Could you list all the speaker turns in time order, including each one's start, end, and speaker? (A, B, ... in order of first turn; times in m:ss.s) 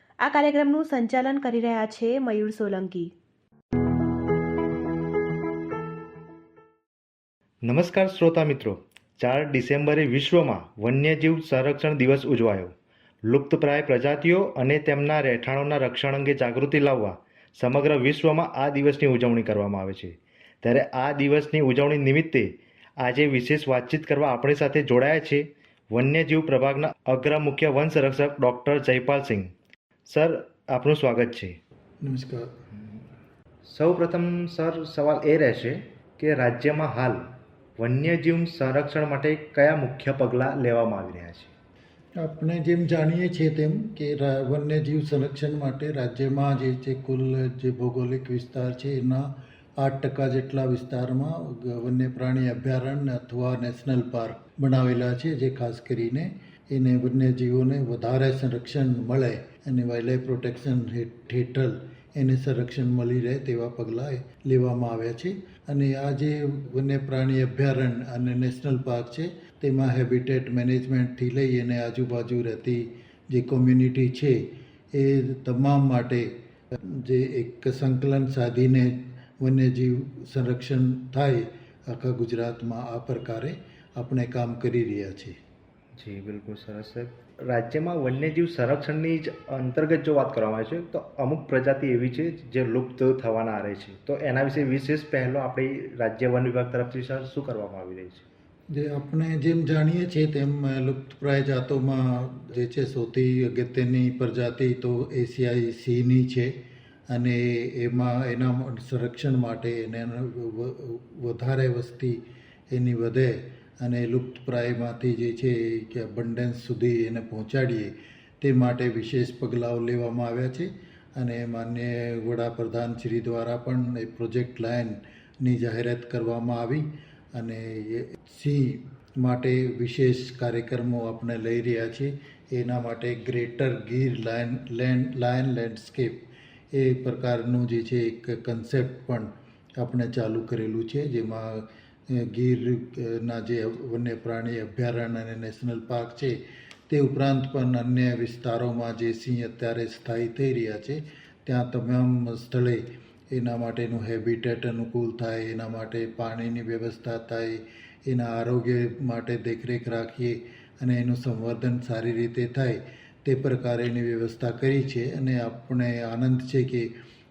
0:00.2-0:03.1 A
0:07.6-0:12.7 B
0:13.3-0:29.5 B
0:30.1-0:31.5 B
0:32.0-0:32.5 C
0:33.7-0:37.2 B
0:37.8-0:41.5 B
0:42.2-1:25.4 C
1:26.0-1:38.2 B
1:38.7-1:46.5 C
1:47.1-1:52.2 C
1:52.7-2:46.9 C